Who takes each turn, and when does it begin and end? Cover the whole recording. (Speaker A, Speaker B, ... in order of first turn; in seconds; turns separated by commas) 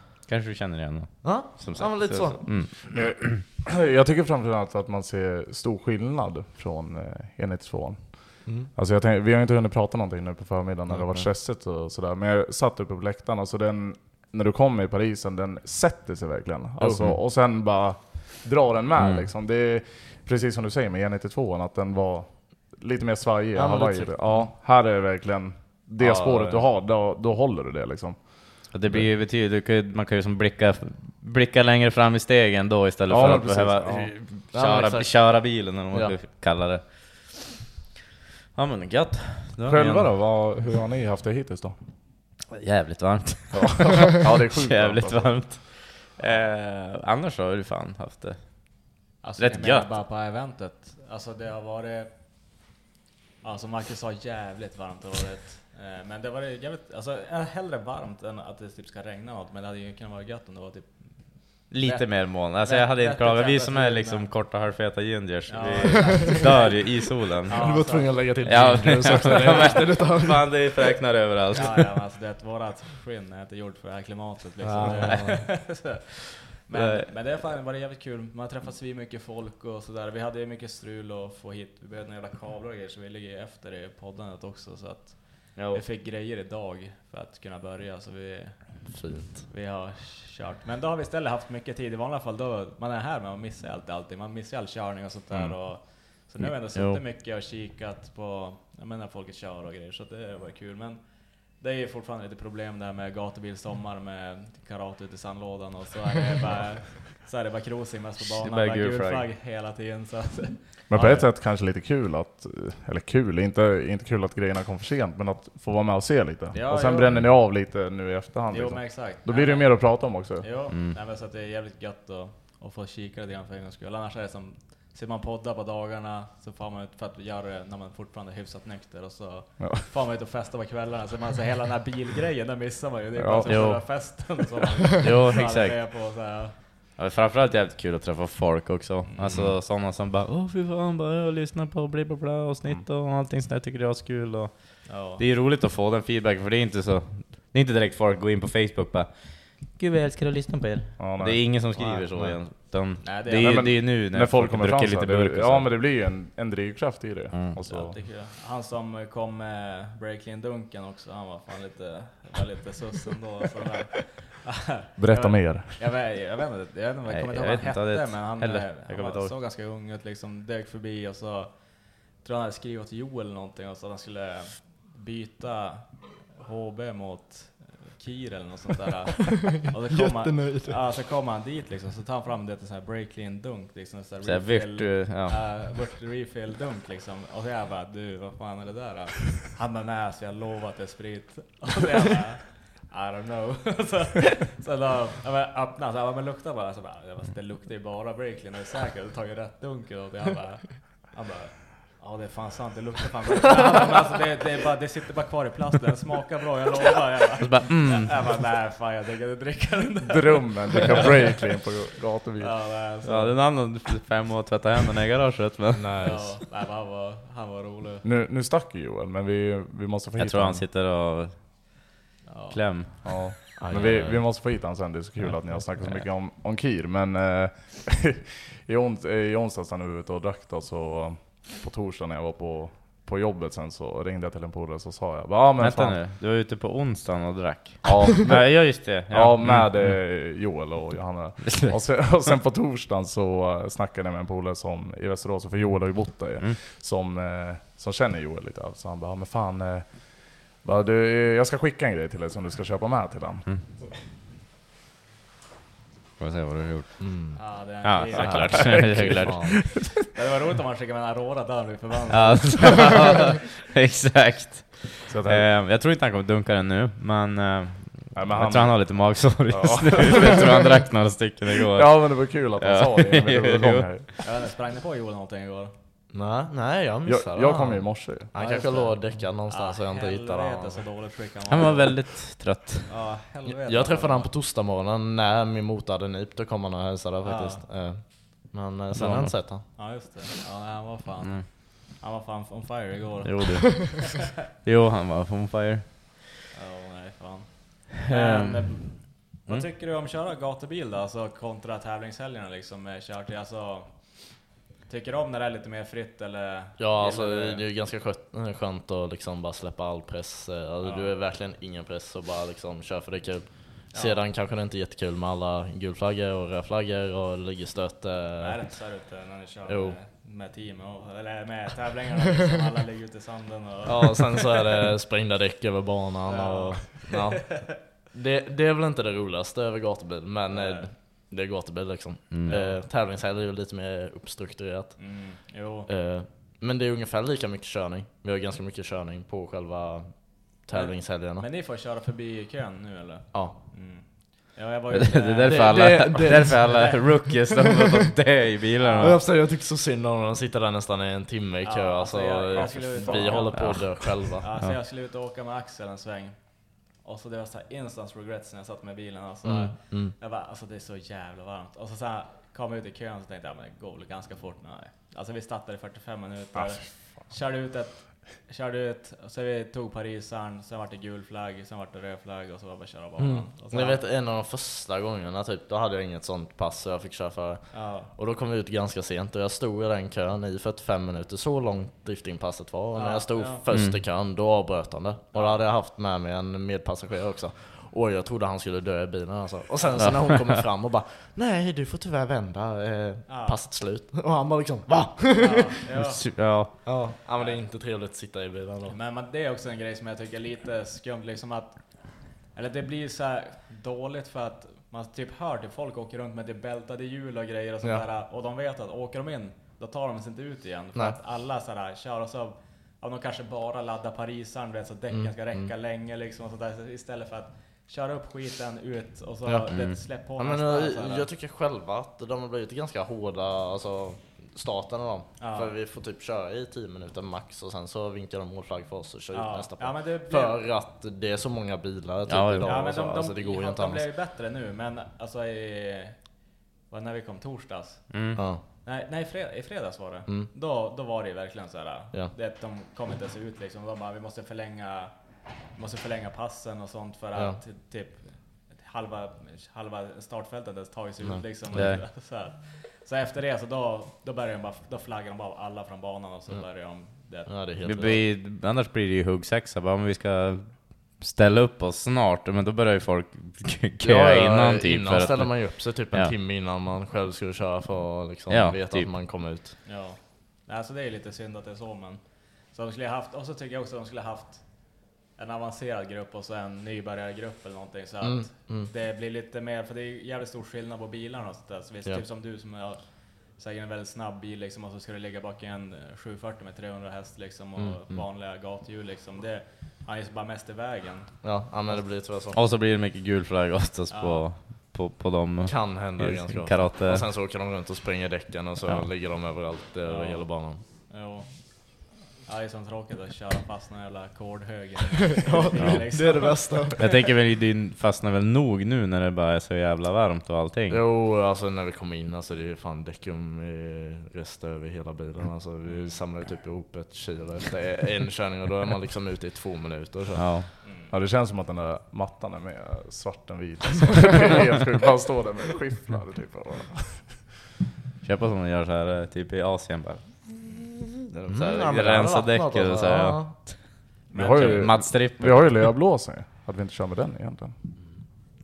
Speaker A: 0.2-3.3, Speaker B: 1.2-2.4, Speaker C: 2.6-29.1, Speaker B: 8.4-8.7, Speaker B: 10.9-11.3, Speaker B: 16.8-17.1, Speaker A: 19.0-19.3, Speaker B: 23.5-24.5, Speaker B: 26.0-26.6, Speaker A: 28.7-37.5, Speaker C: 33.1-34.1, Speaker B: 33.8-36.2, Speaker A: 38.5-40.1, Speaker C: 39.6-41.8, Speaker A: 42.5-49.9, Speaker C: 44.0-45.5, Speaker D: 49.2-52.1, Speaker D: 53.4-64.3, Speaker A: 61.7-71.9, Speaker D: 65.5-68.7, Speaker B: 67.5-70.6, Speaker D: 69.2-69.7, Speaker D: 71.5-76.0, Speaker B: 74.6-75.5, Speaker A: 74.8-75.1, Speaker D: 76.6-111.2, Speaker A: 76.7-77.4, Speaker A: 85.5-85.8, Speaker B: 88.9-89.5, Speaker A: 95.3-97.0, Speaker A: 108.2-109.3, Speaker C: 110.9-120.5, Speaker D: 116.5-117.3, Speaker D: 118.5-136.5, Speaker A: 120.7-121.0, Speaker C: 133.2-134.0, Speaker A: 133.4-133.8, Speaker A: 135.0-135.8, Speaker A: 137.0-155.7, Speaker D: 139.1-139.4, Speaker D: 144.9-145.2, Speaker C: 151.0-157.9, Speaker D: 153.0-153.7, Speaker A: 157.3-157.6, Speaker D: 157.6-211.4, Speaker C: 165.0-165.9, Speaker A: 167.1-169.3, Speaker B: 179.9-180.8, Speaker A: 184.2-185.6, Speaker A: 207.4-208.1, Speaker C: 210.0-212.7, Speaker D: 212.4-213.4, Speaker A: 213.0-216.2, Speaker B: 215.7-216.3, Speaker D: 216.0-218.0, Speaker C: 218.0-220.7, Speaker A: 220.2-221.7, Speaker D: 222.3-223.2, Speaker A: 222.5-222.9, Speaker C: 223.0-236.0, Speaker B: 223.6-224.2, Speaker A: 225.2-226.0, Speaker A: 235.6-240.0, Speaker C: 237.8-253.8, Speaker A: 256.2-257.1, Speaker B: 257.0-257.6, Speaker D: 257.4-259.1, Speaker A: 257.8-259.8, Speaker C: 258.2-259.3, Speaker B: 258.2-259.5, Speaker D: 260.1-263.0, Speaker A: 262.1-274.0, Speaker C: 265.1-265.5, Speaker C: 268.1-270.6, Speaker C: 271.7-274.2, Speaker D: 274.2-275.7, Speaker B: 276.1-280.8, Speaker C: 277.1-278.3, Speaker D: 278.3-284.3, Speaker A: 281.5-282.9, Speaker B: 283.5-289.6, Speaker D: 287.2-287.6, Speaker A: 288.9-289.4, Speaker D: 289.7-294.2, Speaker A: 293.2-296.2, Speaker D: 296.5-307.6, Speaker A: 298.1-299.6, Speaker B: 306.8-318.8, Speaker D: 310.8-311.1, Speaker D: 313.9-314.2, Speaker D: 318.4-324.6, Speaker B: 319.6-319.9, Speaker B: 323.9-335.3, Speaker D: 326.3-327.8, Speaker D: 330.5-330.9, Speaker D: 332.5-332.8, Speaker D: 335.0-335.9, Speaker B: 335.9-341.4, Speaker D: 340.7-347.3, Speaker A: 344.9-349.2, Speaker B: 345.5-346.8, Speaker D: 348.8-349.2, Speaker B: 349.0-354.4, Speaker D: 351.6-374.0, Speaker A: 353.5-354.8, Speaker B: 359.4-360.1, Speaker C: 366.5-367.3, Speaker B: 373.2-398.9, Speaker D: 377.7-378.1, Speaker D: 382.9-383.6, Speaker A: 383.7-384.0, Speaker D: 385.3-385.6, Speaker D: 393.3-393.6, Speaker D: 395.4-396.4, Speaker A: 396.2-396.7, Speaker D: 398.9-421.3, Speaker B: 415.1-415.7, Speaker B: 419.4-434.0, Speaker A: 419.7-420.0, Speaker D: 425.4-425.7, Speaker D: 429.3-430.6, Speaker A: 432.3-432.7, Speaker D: 432.6-457.6, Speaker A: 438.1-438.4, Speaker B: 438.4-438.6, Speaker B: 451.2-451.9, Speaker A: 451.7-452.0, Speaker B: 457.2-458.2, Speaker A: 457.9-466.3, Speaker B: 464.0-469.8, Speaker A: 468.5-469.1, Speaker D: 469.8-492.0, Speaker B: 478.2-478.9, Speaker B: 487.8-488.2, Speaker B: 491.4-492.6, Speaker A: 492.5-497.2, Speaker D: 494.1-494.5, Speaker B: 495.6-500.8, Speaker D: 500.0-506.9, Speaker B: 505.4-507.0, Speaker A: 506.9-511.0, Speaker B: 510.9-520.4, Speaker D: 515.9-516.2, Speaker A: 520.4-520.7, Speaker D: 520.8-521.1, Speaker C: 521.1-527.4, Speaker A: 528.2-531.0, Speaker B: 531.3-533.5, Speaker A: 531.5-535.9, Speaker D: 534.3-534.9, Speaker C: 534.3-537.8, Speaker B: 538.0-538.2